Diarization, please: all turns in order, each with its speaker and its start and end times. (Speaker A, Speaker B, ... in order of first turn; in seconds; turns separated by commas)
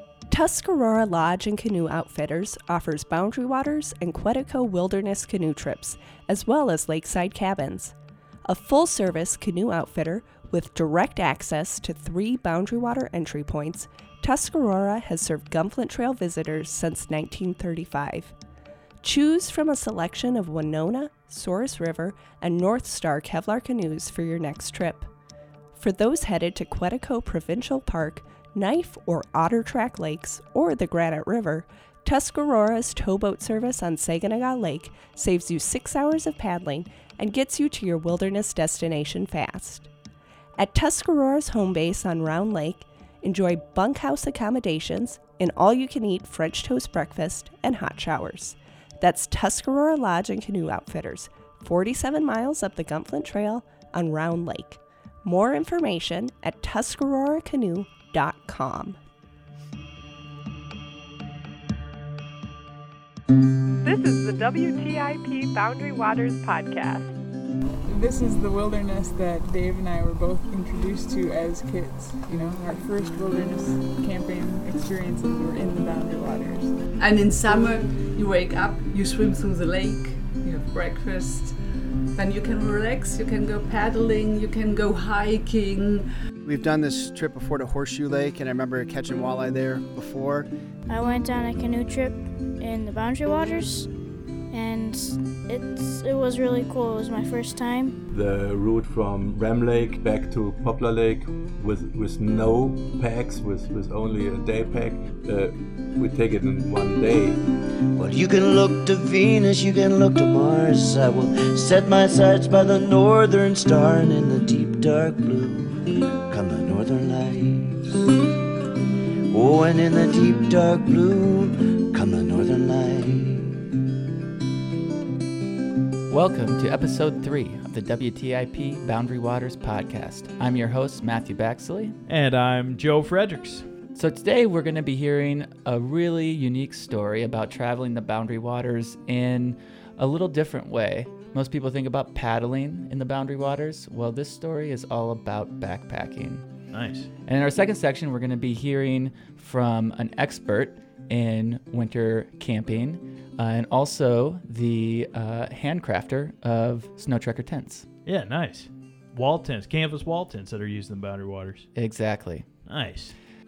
Speaker A: 0.3-18.3, Speaker A: 19.0-25.1, Speaker A: 25.8-39.9, Speaker A: 40.6-59.0, Speaker B: 63.8-67.1, Speaker C: 67.9-76.8, Speaker D: 77.0-81.6, Speaker D: 82.1-86.1, Speaker E: 86.4-90.5, Speaker F: 90.9-93.9, Speaker F: 94.5-98.0, Speaker G: 98.1-107.4, Speaker H: 108.0-118.0, Speaker H: 119.3-123.6, Speaker I: 126.1-132.0, Speaker J: 132.1-133.7, Speaker I: 133.9-146.5, Speaker J: 146.7-147.1, Speaker I: 147.3-157.9, Speaker J: 158.1-161.7, Speaker I: 161.8-162.4, Speaker J: 162.7-163.2